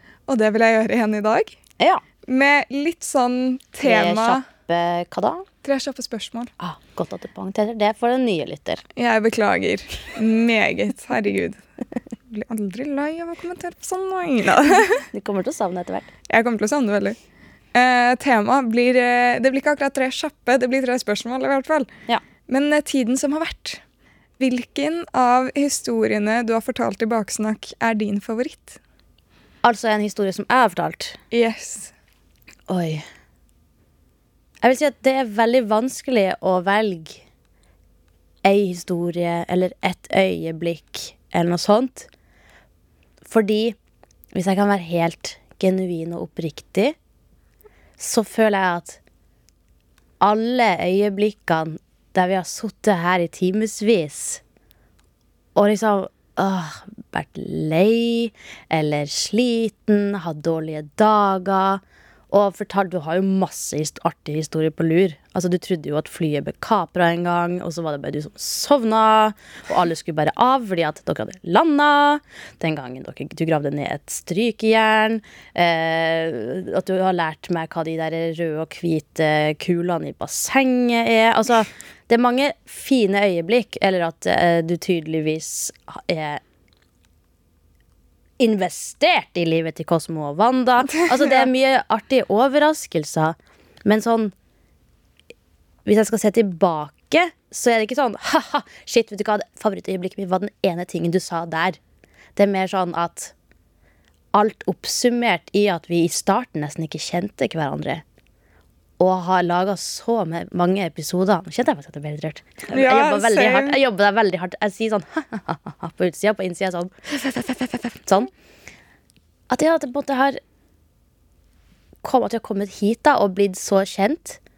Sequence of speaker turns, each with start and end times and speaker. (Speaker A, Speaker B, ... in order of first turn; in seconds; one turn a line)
Speaker A: 0.3-1.6
Speaker A: 2.3-4.4
Speaker B: 3.8-5.5
Speaker A: 5.6-6.5
Speaker B: 6.6-8.8
Speaker A: 8.9-11.6
Speaker A: 12.3-15.1
Speaker B: 15.1-16.1
Speaker A: 16.3-17.2
Speaker A: 17.7-21.9
Speaker A: 22.5-23.8
Speaker A: 24.4-28.8
Speaker B: 29.6-31.2
Speaker A: 31.3-31.9
Speaker B: 32.7-33.0
Speaker B: 34.6-37.2
Speaker B: 38.4-42.1
Speaker B: 43.2-43.8
Speaker B: 44.3-47.0
Speaker B: 48.0-49.0
Speaker B: 50.2-54.4
Speaker B: 55.6-86.4
Speaker B: 88.4-94.3
Speaker A: 91.2-91.5
Speaker B: 95.9-101.8
Speaker B: 102.4-103.3
Speaker B: 104.3-108.0
Speaker B: 109.0-117.0
Speaker A: 112.7-113.8
Speaker A: 117.1-118.0
Speaker B: 119.5-120.4
Speaker B: 122.0-124.4